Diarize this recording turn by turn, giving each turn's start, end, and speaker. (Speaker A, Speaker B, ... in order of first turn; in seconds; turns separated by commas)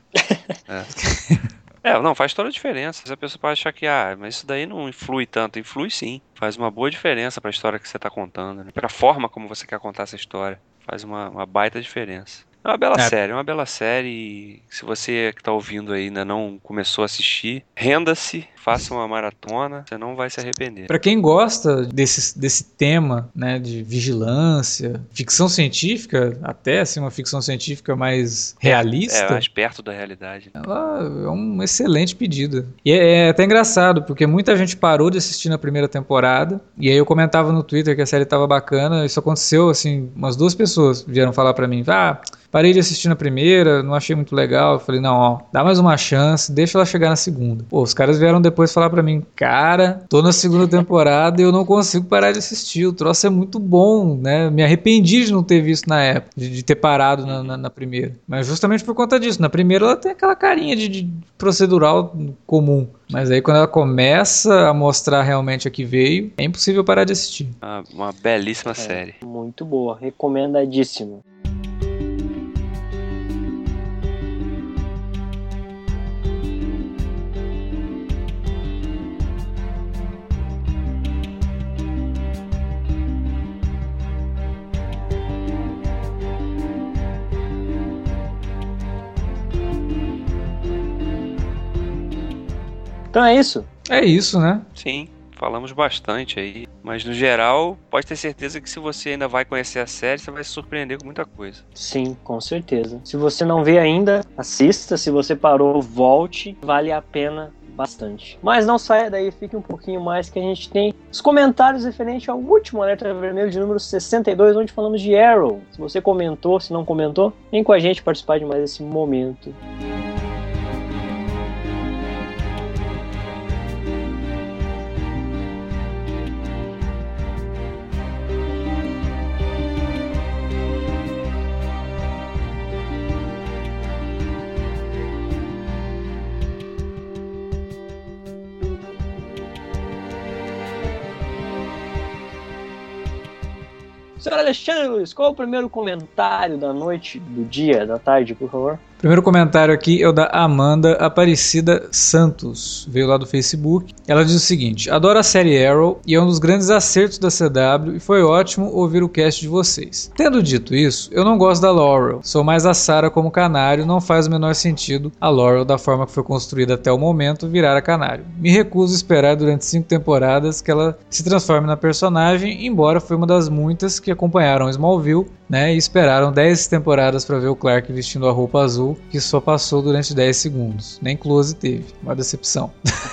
Speaker A: 0.7-1.0, Speaker B: 1.0-1.4, Speaker A: 1.8-20.9, Speaker B: 20.9-29.4, Speaker A: 28.6-30.5, Speaker B: 30.6-67.6, Speaker A: 57.3-57.6, Speaker A: 67.6-69.2, Speaker C: 68.8-71.2, Speaker C: 93.1-93.7, Speaker B: 93.9-94.6, Speaker A: 94.8-101.6, Speaker C: 101.8-119.6, Speaker C: 144.2-148.8, Speaker B: 149.0-182.8